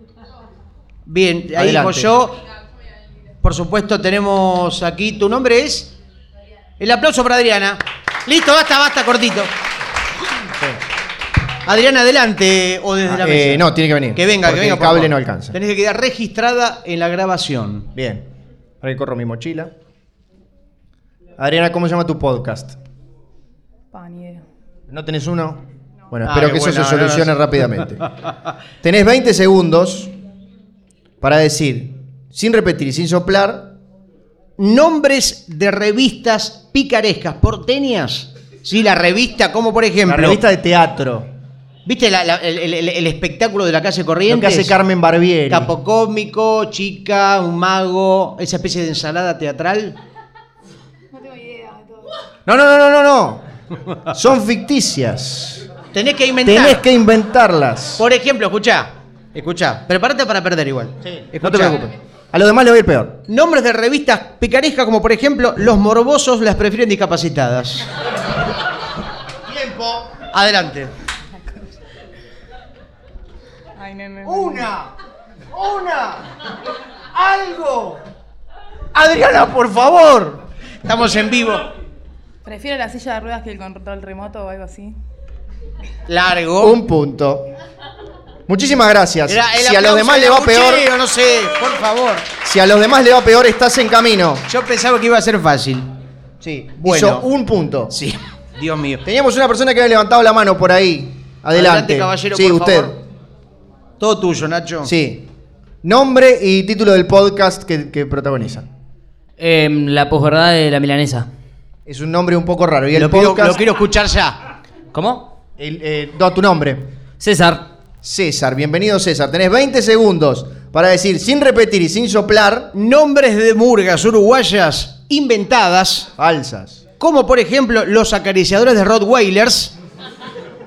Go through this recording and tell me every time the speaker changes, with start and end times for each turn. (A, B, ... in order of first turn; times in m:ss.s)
0:01.0-0:02.4 A
0:01.6-0:02.1 B
0:03.4-0:05.9 A
0:06.8-0:09.5 A
0:11.6-0:17.9 A
0:13.0-0:15.6 B
0:17.9-0:18.2 B
0:18.8-0:19.7 B
0:21.4-0:22.8 B
0:23.9-0:24.4 C
0:24.9-0:28.1 B
0:26.2-0:27.8 A
0:28.8-0:30.1 B
0:31.2-0:33.7 B
0:34.6-0:40.4 A
0:40.0-0:41.3 B
0:41.8-0:44.7 A
0:44.3-0:45.7 B
0:45.5-0:50.0 A
0:51.1-0:52.1 C
0:52.4-0:53.4 B
0:54.0-0:55.6 B
0:55.9-0:56.8 A
0:56.4-0:58.0 B
0:58.0-1:01.8 A
1:01.0-1:03.2 B
1:03.3-1:07.8 A
1:09.4-1:10.2 B
1:10.3-1:10.9 A
1:13.8-1:14.7 C
1:14.2-1:14.8 B
1:15.5-1:16.3 B
1:17.1-1:18.0 B
1:18.9-1:20.4 B
1:20.8-1:21.7 A
1:22.4-1:24.9 C
1:26.1-1:26.8 A
1:26.6-1:27.5 B
1:28.5-1:30.9 B
1:29.3-1:32.3 A
1:32.4-1:34.4 B
1:34.5-1:35.9 A
1:36.4-1:37.9 B
1:36.8-1:37.2 A
1:37.9-1:39.0 A
1:39.0-1:42.9 B
1:41.5-1:43.0 A
1:44.0-1:44.9 A
1:44.8-1:45.3 B
1:45.8-1:48.7 B
1:49.4-1:51.2 D
1:51.8-1:53.6 B
1:52.9-1:54.4 A
1:54.9-1:55.2 D
1:55.6-1:56.8 B
1:57.2-1:57.6 D
1:58.0-2:02.7 B
2:02.7-2:06.1 A
2:06.2-2:06.8 B
2:07.0-2:09.7 A